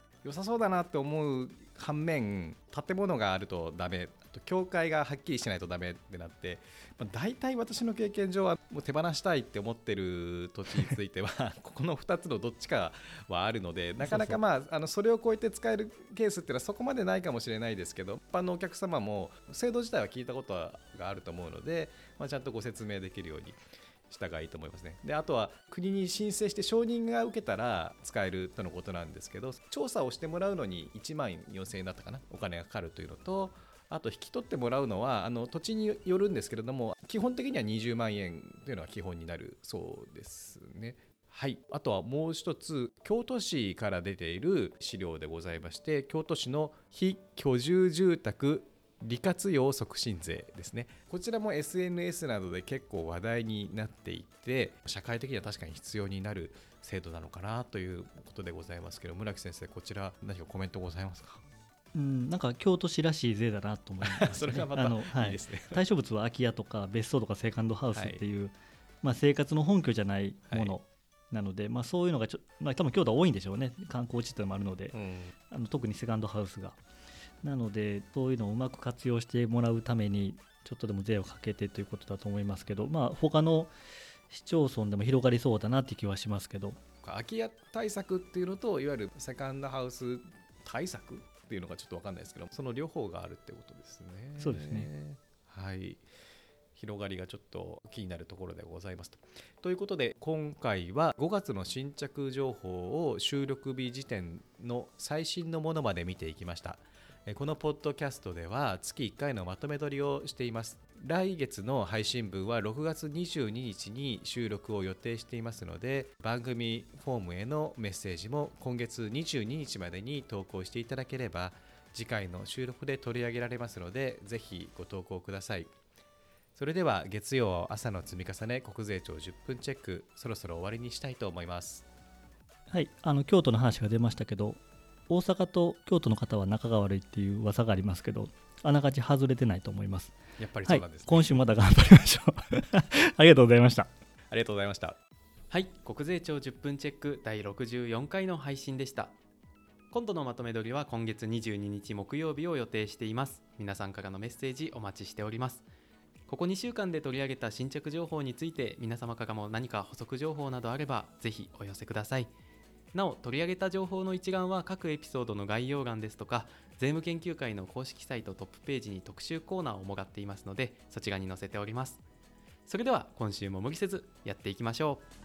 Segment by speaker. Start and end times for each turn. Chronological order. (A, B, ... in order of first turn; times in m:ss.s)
0:00.2-0:23.6 A
0:14.0-0:14.4 B
0:24.1-1:01.4 A
1:01.9-1:15.0 B
1:04.0-1:05.8 A
1:07.9-1:08.2 A
1:10.5-1:10.8 A
1:14.9-1:15.3 A
1:15.5-1:16.8 B
1:17.4-1:23.7 B
1:24.3-1:26.8 B
1:27.0-1:36.1 A
1:34.4-1:34.9 B
1:36.8-2:05.7 A
2:06.6-2:11.9 A
2:12.7-2:23.9 B
2:20.4-2:21.4 A
2:24.3-2:25.0 A
2:25.5-2:29.1 C
2:29.9-2:35.6 C
2:36.3-2:42.3 C
2:42.9-2:52.0 C
2:52.7-2:55.1 C